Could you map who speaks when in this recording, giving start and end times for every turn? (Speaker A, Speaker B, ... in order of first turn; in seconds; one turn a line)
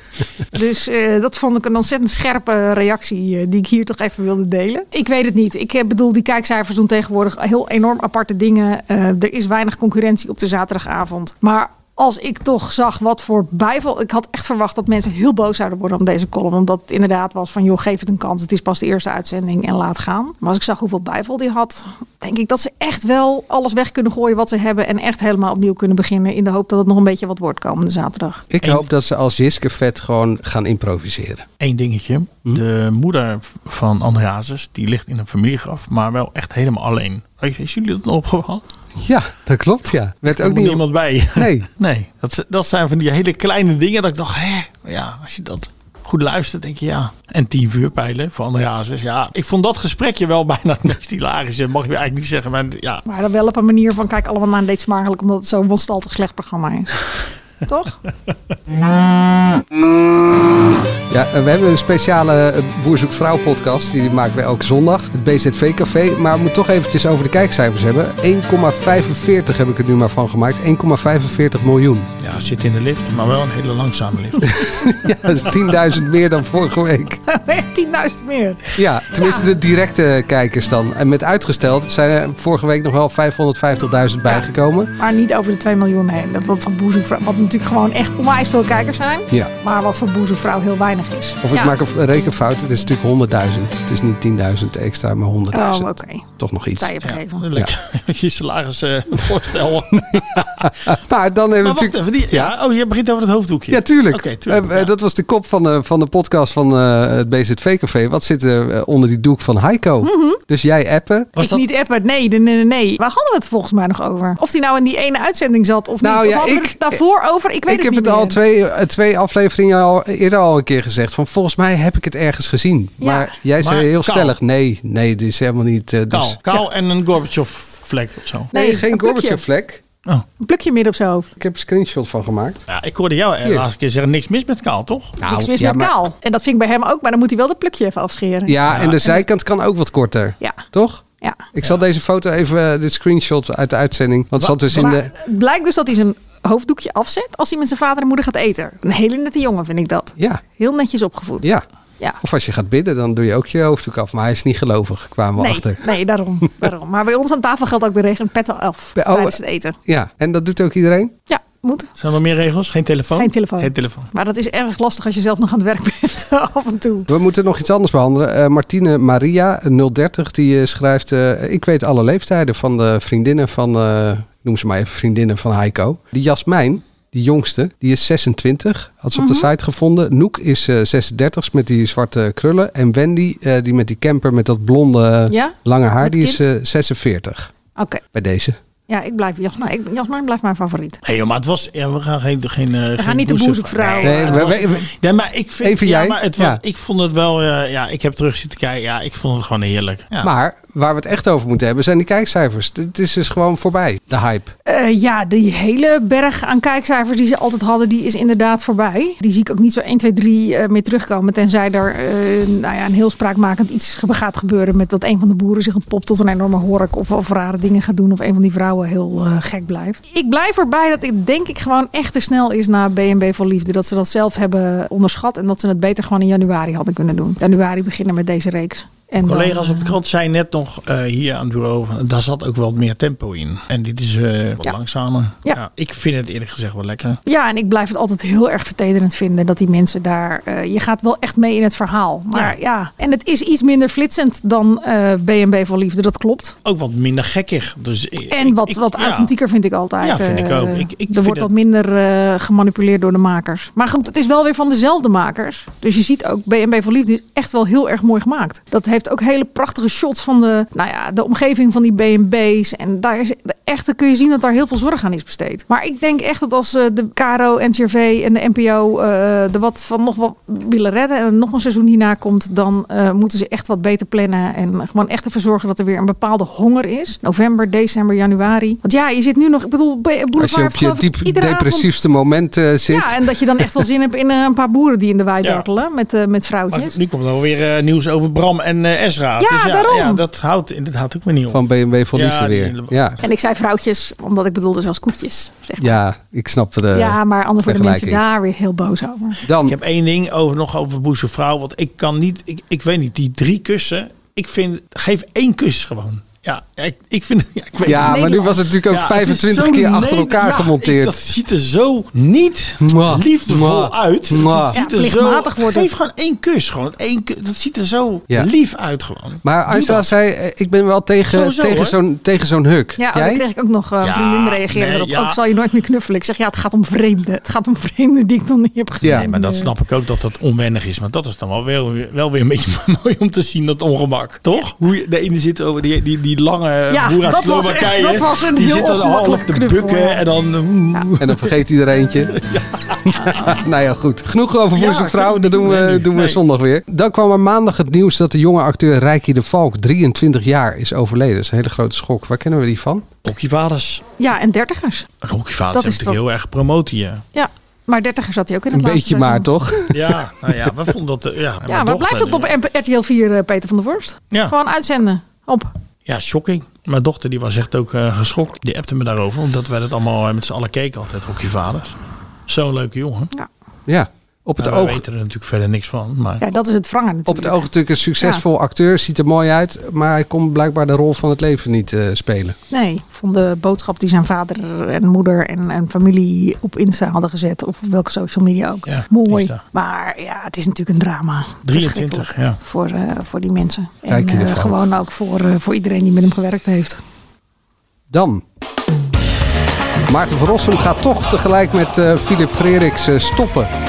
Speaker A: 0.5-28.4
Speaker B: 28.5-31.4
Speaker C: 31.6-38.6
Speaker B: 39.0-40.8
Speaker C: 40.2-53.0
Speaker B: 41.3-41.7
Speaker A: 53.0-58.0
Speaker B: 61.1-72.1
Speaker C: 72.2-74.7
Speaker B: 74.5-77.2
Speaker A: 77.3-79.5
Speaker B: 78.8-84.9
Speaker A: 85.0-91.8
Speaker B: 91.4-96.9
Speaker A: 95.5-97.4
Speaker C: 97.0-100.7
Speaker B: 100.0-102.5
Speaker C: 101.6-104.9
Speaker B: 103.7-111.3
Speaker A: 110.0-110.4
Speaker C: 111.3-111.6
Speaker A: 111.4-118.4
Speaker B: 116.0-117.0
Speaker B: 117.7-126.6
Speaker A: 123.0-123.3
Speaker C: 123.6-124.3
Speaker C: 126.1-128.5
Speaker A: 128.5-129.4
Speaker B: 128.5-129.8
Speaker A: 130.4-131.3
Speaker B: 131.4-132.6
Speaker C: 132.7-135.2
Speaker B: 135.2-135.9
Speaker A: 135.2-139.2
Speaker B: 138.5-141.0
Speaker C: 138.7-138.9
Speaker B: 141.5-145.1
Speaker A: 144.6-151.5
Speaker B: 152.2-155.9
Speaker A: 155.4-159.8
Speaker B: 158.9-161.1
Speaker A: 161.3-161.9
Speaker C: 162.0-164.1
Speaker A: 163.2-167.1
Speaker B: 167.1-187.5
Speaker A: 179.1-179.5
Speaker A: 185.3-186.4
Speaker A: 187.8-188.0
Speaker B: 188.1-188.6
Speaker A: 188.9-191.0
Speaker C: 191.0-200.3
Speaker A: 193.0-194.7
Speaker B: 194.0-194.9
Speaker B: 195.6-196.6
Speaker B: 200.2-204.5
Speaker A: 204.7-230.0
Speaker C: 229.2-237.2
Speaker A: 237.2-246.6
Speaker C: 246.6-249.3
Speaker A: 248.3-281.9
Speaker C: 250.0-251.5
Speaker B: 280.4-283.7
Speaker A: 282.9-286.9
Speaker C: 286.7-293.2
Speaker A: 289.4-290.2
Speaker B: 291.5-293.1
Speaker A: 293.2-295.9
Speaker B: 295.8-298.2
Speaker A: 296.9-299.4
Speaker B: 299.4-299.8
Speaker C: 299.6-320.1
Speaker A: 307.8-308.7
Speaker B: 307.8-311.2
Speaker B: 312.8-314.8
Speaker A: 314.7-315.9
Speaker B: 319.4-323.4
Speaker C: 321.3-322.0
Speaker A: 323.0-329.7
Speaker C: 324.0-325.4
Speaker C: 329.0-341.5
Speaker A: 336.9-340.2
Speaker B: 341.2-342.4
Speaker C: 342.4-343.6
Speaker B: 343.1-353.1
Speaker C: 344.7-346.4
Speaker C: 353.2-354.0
Speaker A: 354.2-355.1
Speaker C: 355.2-357.2
Speaker A: 355.7-356.2
Speaker A: 357.3-359.9
Speaker B: 358.7-360.1
Speaker C: 359.9-362.5
Speaker A: 361.7-365.7
Speaker C: 366.1-373.3
Speaker B: 373.9-375.0
Speaker C: 374.6-376.4
Speaker A: 376.4-377.7
Speaker B: 377.3-382.6
Speaker A: 382.7-397.0
Speaker C: 388.9-389.6
Speaker C: 391.6-392.6
Speaker B: 394.1-394.8
Speaker B: 398.1-398.4
Speaker B: 400.1-403.7